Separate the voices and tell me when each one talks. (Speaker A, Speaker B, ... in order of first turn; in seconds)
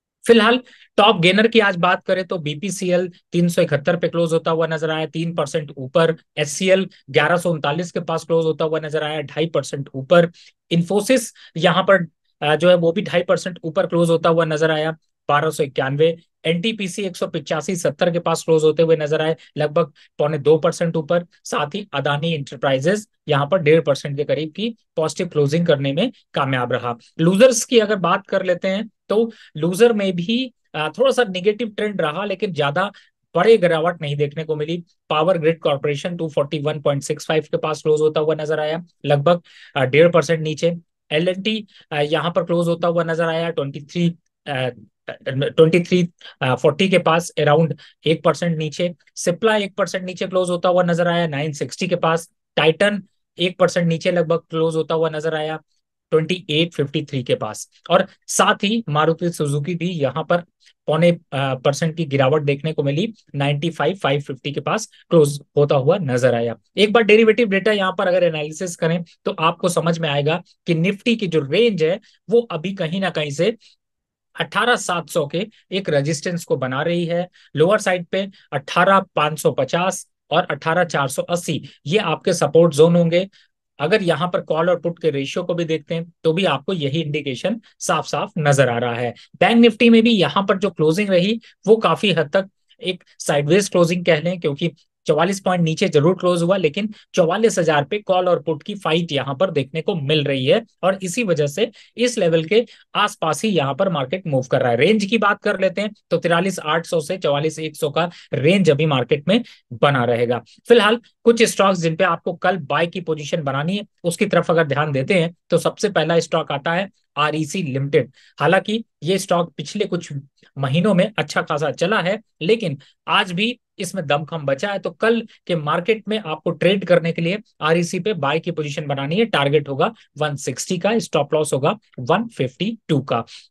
Speaker A: 0.2-55.6, 56.1-73.5, 74.4-83.3, 83.8-133.2